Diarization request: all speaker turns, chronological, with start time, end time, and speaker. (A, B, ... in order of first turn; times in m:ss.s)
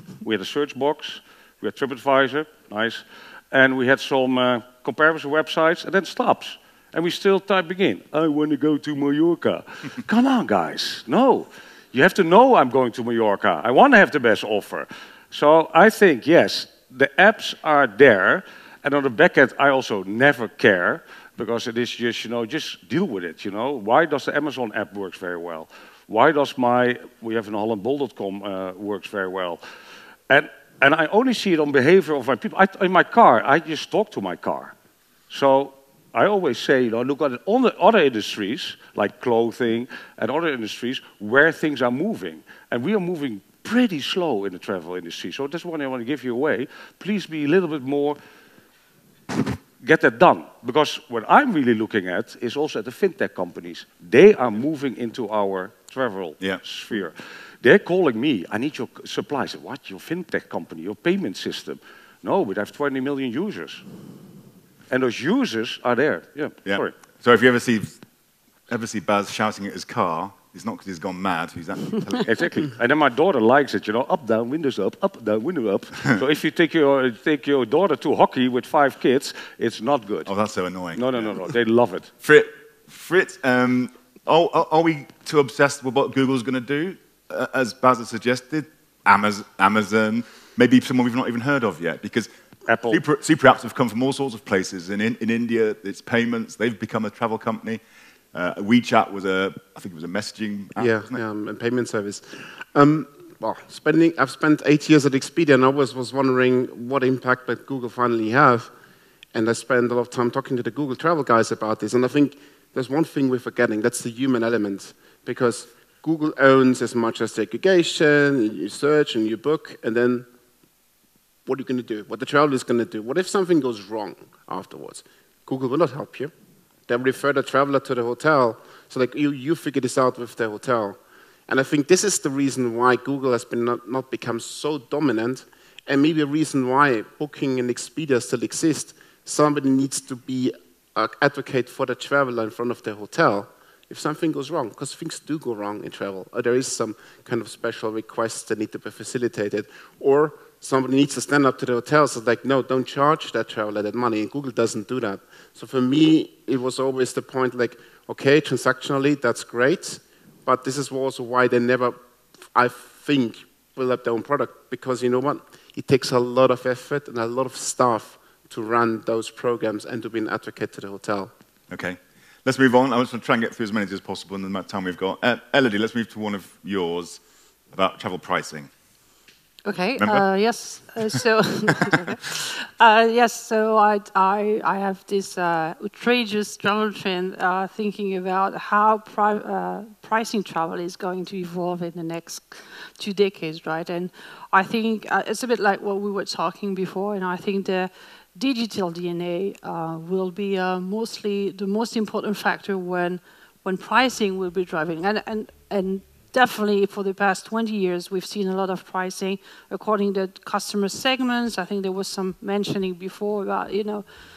0:00.2-0:29.6 A
0:30.3-0:34.7 A
0:35.3-0:48.2 A
0:49.8-1:03.8 A
1:04.9-1:07.0 A
1:06.7-1:08.0 B
1:08.7-1:12.3 B
1:12.2-1:20.3 A
1:20.3-1:21.5 B
1:21.0-1:22.1 A
1:22.2-1:32.3 B
1:32.7-1:33.0 A
1:32.9-1:37.8 B
1:38.3-1:41.2 B
1:40.8-1:48.7 C
1:49.3-2:00.3 C
2:01.5-2:06.3 C
2:06.9-2:42.0 C
2:42.5-2:51.3 C
2:51.7-2:57.2 B
2:57.7-2:58.7 B
2:59.6-3:34.1 D
3:00.0-3:00.2 B
3:01.1-3:02.2 B